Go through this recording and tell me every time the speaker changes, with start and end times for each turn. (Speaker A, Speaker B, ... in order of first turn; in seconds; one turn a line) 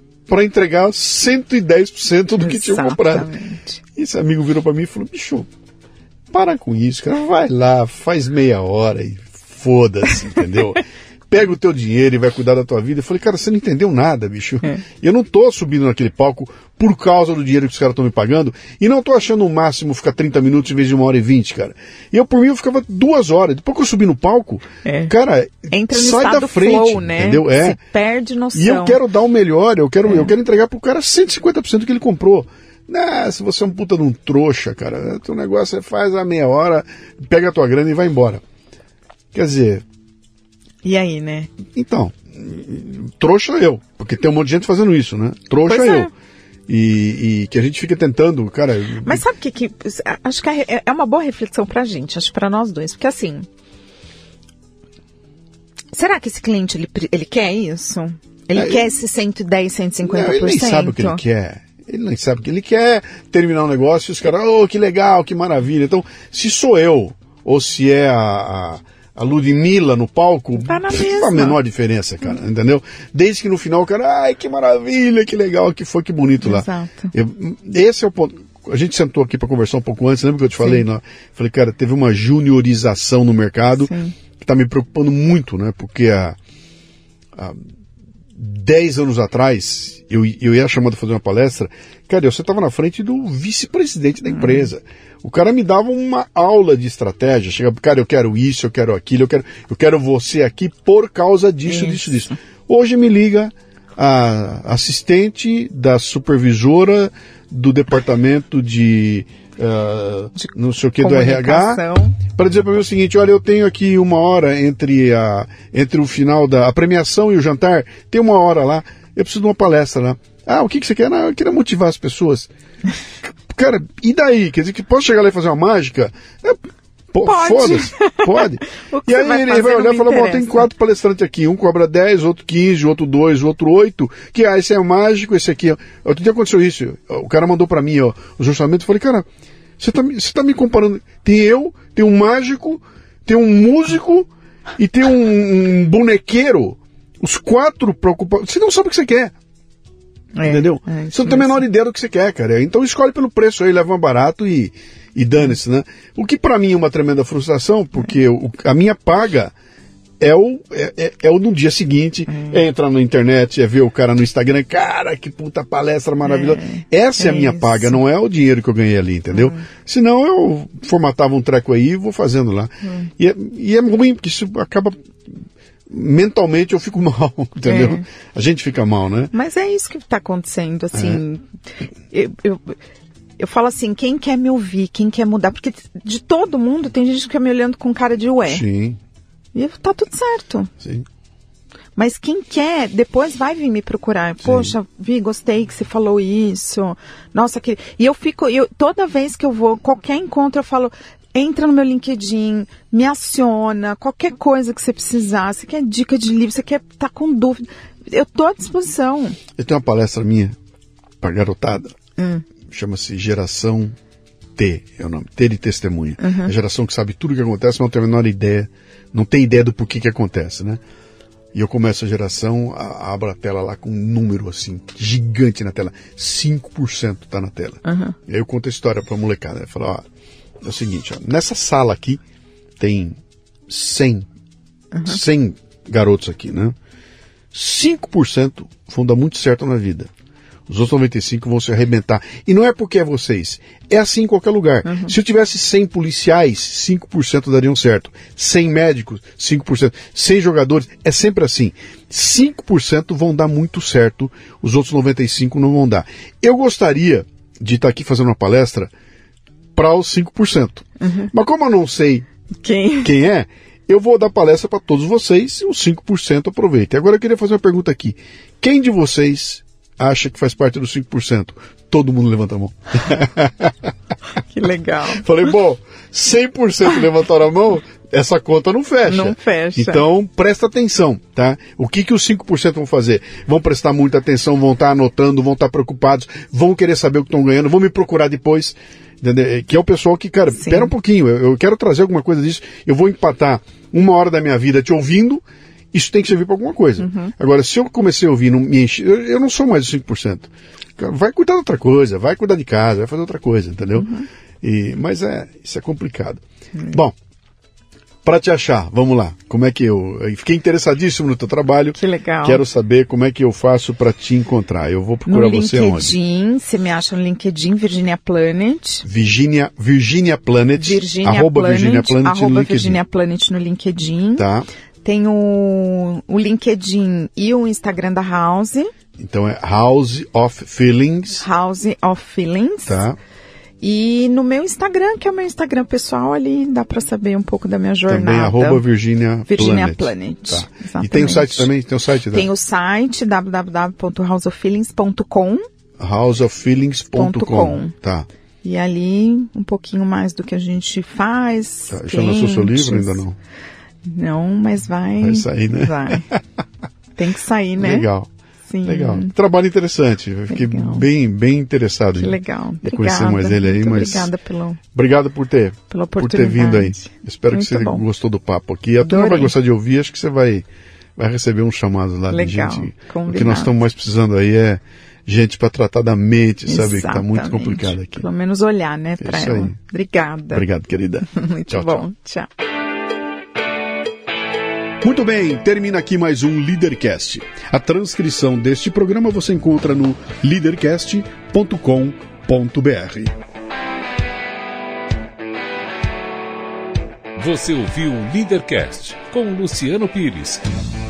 Speaker A: 0.3-3.3
Speaker B: 2.4-3.8
Speaker A: 4.0-5.5
Speaker A: 6.3-27.8
Speaker B: 24.8-25.1
Speaker B: 25.7-29.0
Speaker A: 28.6-38.4
Speaker B: 30.1-30.3
Speaker A: 39.3-39.9
Speaker B: 40.8-41.5
Speaker A: 41.7-46.1
Speaker B: 45.6-46.1
Speaker A: 46.7-49.2
Speaker B: 49.0-53.5
Speaker B: 55.9-61.2
Speaker A: 58.5-58.9
Speaker A: 60.1-86.4
Speaker B: 70.6-71.6
Speaker B: 76.4-77.1
Speaker B: 83.8-84.2
Speaker A: 87.3-87.6
Speaker A: 88.3-122.5
Speaker B: 94.4-94.7
Speaker B: 101.7-102.2
Speaker B: 110.4-112.2
Speaker A: 123.5-139.3
Speaker B: 127.2-130.7
Speaker A: 139.8-149.3
Speaker B: 150.3-151.6
Speaker A: 150.4-159.5
Speaker A: 160.2-175.0
Speaker B: 162.3-162.6
Speaker B: 166.2-168.0
Speaker B: 169.3-169.7
Speaker A: 175.9-179.3
Speaker B: 177.7-178.1
Speaker B: 179.3-181.4
Speaker A: 180.9-181.2
Speaker B: 182.1-182.8
Speaker B: 183.4-188.6
Speaker A: 188.4-189.0
Speaker B: 189.6-190.7
Speaker A: 190.8-191.1
Speaker B: 192.0-209.4
Speaker A: 194.4-194.7
Speaker A: 209.6-210.6
Speaker A: 211.2-212.0
Speaker B: 212.2-212.4
Speaker A: 212.7-214.0
Speaker A: 214.6-220.8
Speaker B: 216.2-216.5
Speaker A: 221.5-230.0
Speaker B: 227.8-228.2
Speaker A: 230.6-232.2
Speaker A: 232.8-234.3
Speaker A: 235.1-236.8
Speaker A: 237.5-240.1
Speaker A: 240.7-258.9
Speaker B: 244.8-245.1
Speaker A: 259.8-262.3
Speaker B: 261.0-261.3
Speaker B: 262.6-263.1
Speaker A: 263.0-273.9
Speaker B: 274.5-275.3
Speaker A: 275.1-307.1
Speaker B: 279.1-280.0
Speaker B: 290.6-290.9
Speaker B: 297.0-297.3
Speaker B: 304.0-304.3
Speaker A: 308.2-316.1
Speaker B: 312.0-312.6
Speaker B: 315.3-319.1
Speaker A: 319.0-323.0
Speaker B: 320.8-324.5
Speaker A: 324.4-324.7
Speaker B: 325.0-328.9
Speaker A: 329.2-331.5
Speaker B: 331.4-333.0
Speaker A: 332.9-333.2
Speaker B: 333.8-338.8
Speaker A: 338.1-342.5
Speaker B: 339.5-341.7
Speaker B: 342.3-345.6
Speaker A: 346.0-348.3
Speaker B: 347.1-347.9
Speaker B: 348.6-353.2
Speaker A: 351.9-353.4
Speaker B: 354.0-356.3
Speaker A: 355.2-356.4
Speaker B: 357.2-358.1
Speaker A: 357.8-358.3
Speaker B: 358.7-359.3
Speaker A: 358.9-364.3
Speaker B: 360.5-361.1
Speaker B: 362.2-364.8
Speaker A: 364.9-370.6
Speaker B: 365.9-368.0
Speaker B: 369.0-369.5
Speaker A: 371.2-378.2
Speaker B: 372.3-373.7
Speaker B: 376.7-380.6
Speaker A: 379.2-379.8
Speaker A: 380.5-382.0
Speaker B: 381.3-382.5
Speaker A: 385.0-393.4
Speaker C: 397.4-400.6